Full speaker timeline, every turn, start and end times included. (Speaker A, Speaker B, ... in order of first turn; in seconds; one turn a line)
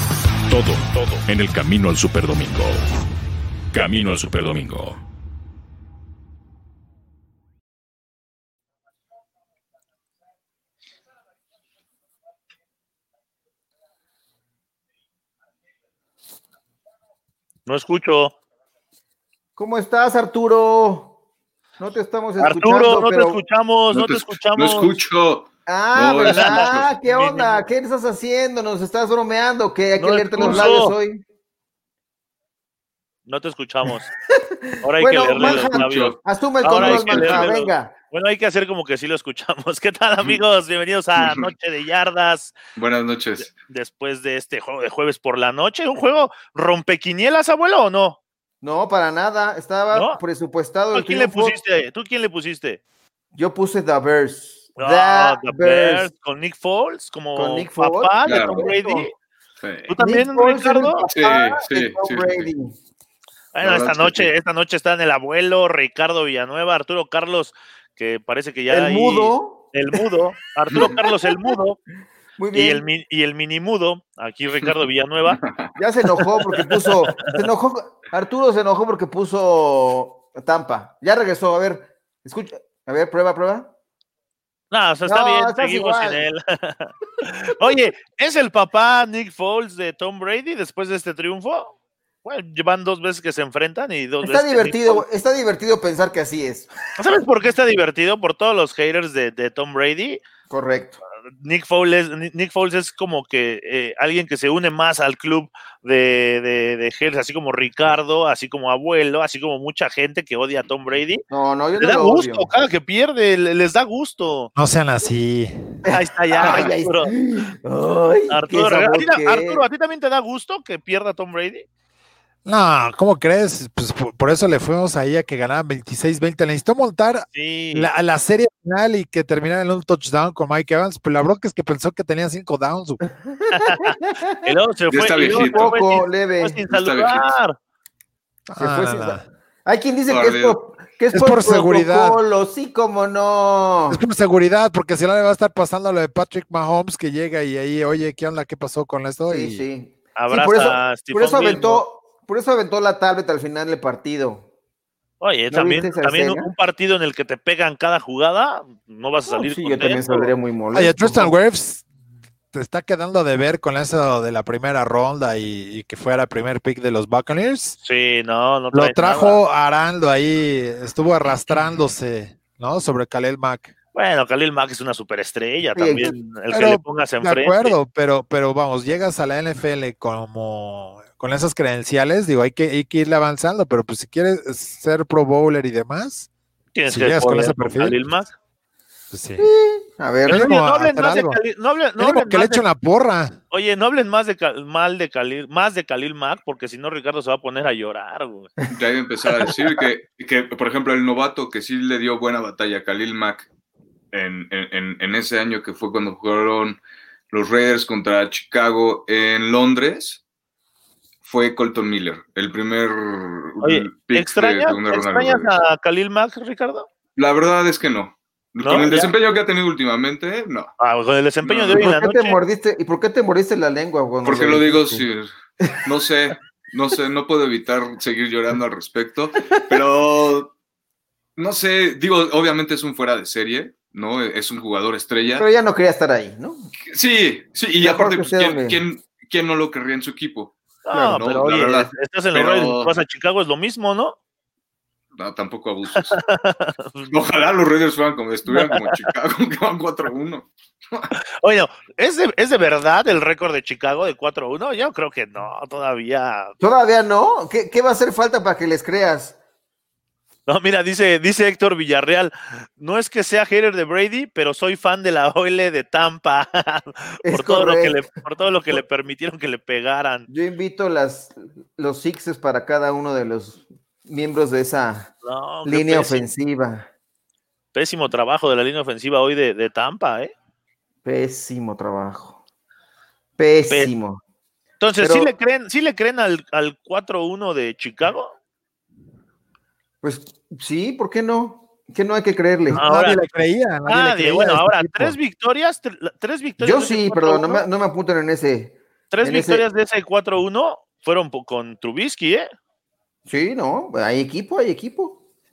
Speaker A: 0.5-2.8
Speaker A: 3.7-5.0
Speaker B: 17.7-18.4
Speaker C: 19.6-21.1
Speaker C: 21.8-23.4
Speaker B: 22.4-25.0
Speaker D: 23.9-26.9
Speaker C: 25.7-31.2
Speaker B: 26.2-27.6
Speaker B: 30.0-30.9
Speaker D: 30.4-30.7
Speaker B: 33.3-34.1
Speaker C: 34.4-37.9
Speaker B: 34.8-42.5
Speaker D: 35.4-36.2
Speaker D: 36.8-37.6
Speaker D: 41.2-41.5
Speaker D: 42.8-43.5
Speaker B: 43.4-48.2
Speaker C: 48.6-51.6
Speaker B: 49.9-50.2
Speaker B: 50.9-52.8
Speaker C: 53.4-56.1
Speaker B: 54.8-59.1
Speaker C: 57.4-59.1
Speaker D: 58.2-58.7
Speaker D: 59.6-59.9
Speaker B: 59.9-61.1
Speaker C: 60.0-62.8
Speaker D: 61.1-62.5
Speaker B: 63.5-71.8
Speaker D: 63.6-64.3
Speaker C: 68.7-70.0
Speaker C: 70.7-71.5
Speaker C: 72.4-72.8
Speaker B: 72.5-75.4
Speaker D: 75.3-75.7
Speaker C: 75.8-83.7
Speaker B: 84.7-95.0
Speaker C: 85.0-86.2
Speaker C: 94.2-96.7
Speaker B: 97.0-100.2
Speaker C: 100.5-101.0
Speaker B: 101.4-111.2
Speaker C: 111.3-112.5
Speaker B: 111.8-114.5
Speaker E: 114.6-115.5
Speaker C: 115.9-119.6
Speaker B: 115.9-117.2
Speaker B: 118.3-121.7
Speaker E: 122.5-133.0
Speaker B: 127.3-127.9
Speaker C: 133.3-134.5
Speaker B: 133.5-137.6
Speaker D: 134.9-135.8
Speaker C: 135.2-136.6
Speaker D: 136.7-137.3
Speaker E: 138.5-139.2
Speaker C: 138.6-144.0
Speaker D: 140.1-140.6
Speaker E: 141.1-142.2
Speaker E: 143.9-149.7
Speaker C: 149.3-154.5
Speaker B: 150.2-151.8
Speaker B: 155.2-160.3
Speaker C: 155.5-156.5
Speaker C: 159.3-161.3
Speaker E: 160.7-161.9
Speaker E: 162.5-167.8
Speaker B: 167.8-169.4
Speaker E: 168.7-173.7
Speaker B: 173.9-177.8
Speaker C: 175.8-176.2
Speaker E: 176.5-186.3
Speaker B: 186.8-188.3
Speaker E: 186.9-188.0
Speaker E: 189.1-189.5
Speaker C: 189.4-190.5
Speaker B: 190.3-192.6
Speaker E: 190.3-191.4
Speaker E: 192.0-193.4
Speaker B: 193.5-198.5
Speaker D: 198.7-203.5
Speaker D: 204.1-206.8
Speaker D: 207.3-210.2
Speaker D: 211.2-215.5
Speaker B: 213.6-216.9
Speaker D: 217.2-220.7
Speaker B: 218.6-219.1
Speaker B: 220.8-222.4
Speaker D: 221.4-221.9
Speaker C: 221.8-225.1
Speaker D: 224.2-230.5
Speaker D: 231.4-235.5
Speaker C: 235.4-236.7
Speaker D: 236.9-242.9
Speaker C: 237.8-238.8
Speaker B: 240.9-244.2
Speaker D: 245.2-246.2
Speaker B: 246.0-247.1
Speaker D: 247.1-251.1
Speaker B: 248.5-249.1
Speaker B: 251.4-256.5
Speaker C: 256.6-259.4
Speaker B: 260.5-270.3
Speaker C: 267.3-268.0
Speaker C: 270.3-275.1
Speaker B: 275.2-276.3
Speaker C: 275.6-276.9
Speaker B: 277.8-280.3
Speaker C: 281.1-282.4
Speaker C: 283.4-284.2
Speaker B: 284.8-288.4
Speaker C: 285.0-285.3
Speaker C: 290.0-292.8
Speaker E: 292.7-295.2
Speaker B: 292.7-293.2
Speaker B: 293.9-297.7
Speaker C: 296.6-299.6
Speaker B: 299.1-302.5
Speaker C: 303.3-305.2